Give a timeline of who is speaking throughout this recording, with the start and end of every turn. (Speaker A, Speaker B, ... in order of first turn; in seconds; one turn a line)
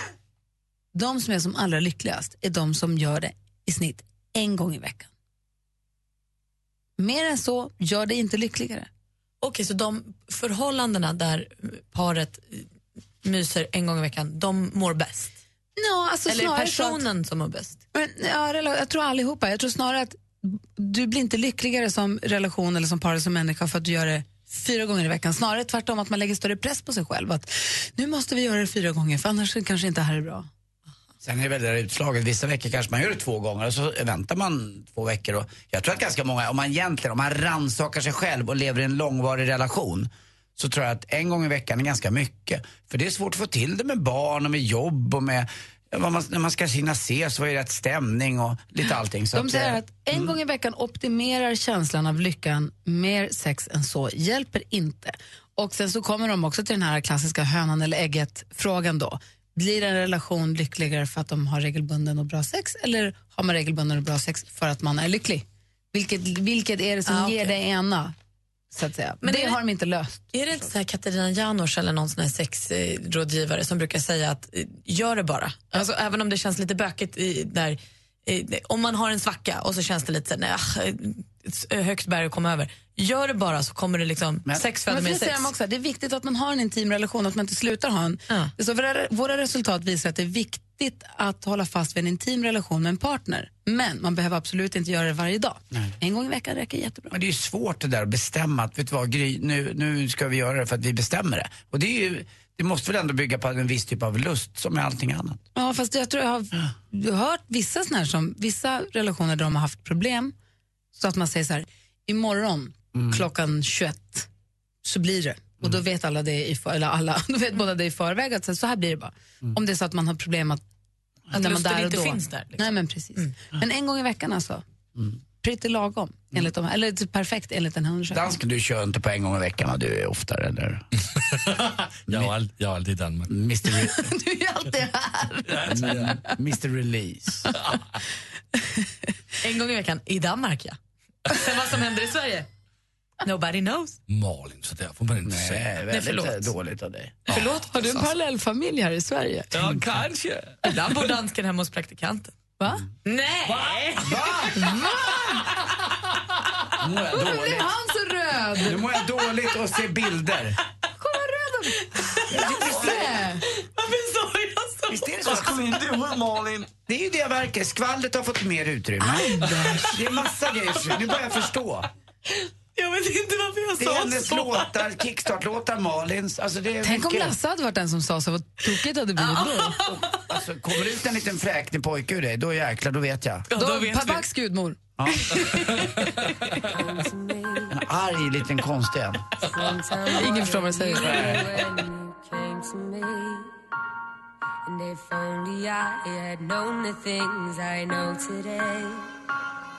Speaker A: 0.9-5.1
Speaker A: 7.0-8.9
Speaker B: 9.4-12.6
Speaker B: 13.2-15.3
Speaker A: 15.8-17.0
Speaker B: 16.3-17.8
Speaker A: 17.9-30.5
Speaker C: 31.2-50.4
Speaker A: 49.3-68.1
Speaker B: 67.0-67.5
Speaker A: 68.7-70.6
Speaker B: 69.2-69.6
Speaker B: 70.3-85.5
Speaker A: 84.9-97.1
Speaker C: 97.1-105.4
Speaker A: 105.5-110.3
Speaker A: 110.9-114.3
Speaker C: 112.9-113.2
Speaker A: 114.8-120.6
Speaker A: 121.3-124.6
Speaker B: 121.3-123.3
Speaker A: 125.4-128.3
Speaker C: 128.1-130.8
Speaker D: 131.2-133.3
Speaker C: 133.3-134.0
Speaker A: 134.1-135.8
Speaker D: 135.5-136.2
Speaker C: 135.7-137.5
Speaker B: 139.4-142.5
Speaker B: 143.2-144.0
Speaker D: 144.1-145.7
Speaker C: 145.2-147.4
Speaker B: 145.9-146.5
Speaker B: 147.3-148.1
Speaker A: 147.7-149.6
Speaker D: 149.5-150.6
Speaker B: 150.6-152.3
Speaker A: 152.6-152.8
Speaker B: 153.0-153.9
Speaker D: 153.6-153.9
Speaker C: 154.0-154.7
Speaker A: 154.6-155.4
Speaker C: 156.8-157.7
Speaker A: 157.2-158.9
Speaker C: 158.6-160.6
Speaker A: 161.0-161.8
Speaker B: 161.9-162.9
Speaker C: 162.3-163.2
Speaker A: 162.6-163.4
Speaker B: 163.5-165.7
Speaker C: 164.9-165.8
Speaker D: 165.3-166.7
Speaker C: 166.9-171.8
Speaker A: 169.1-169.8
Speaker B: 172.3-174.7
Speaker C: 173.8-177.3
Speaker A: 176.8-179.8
Speaker B: 179.2-180.0
Speaker C: 179.9-183.4
Speaker B: 183.5-184.2
Speaker A: 183.6-185.9
Speaker C: 185.0-185.3
Speaker E: 186.7-187.8
Speaker C: 187.7-189.2
Speaker E: 189.4-193.5
Speaker A: 190.1-191.4
Speaker C: 191.0-191.5
Speaker E: 194.7-199.1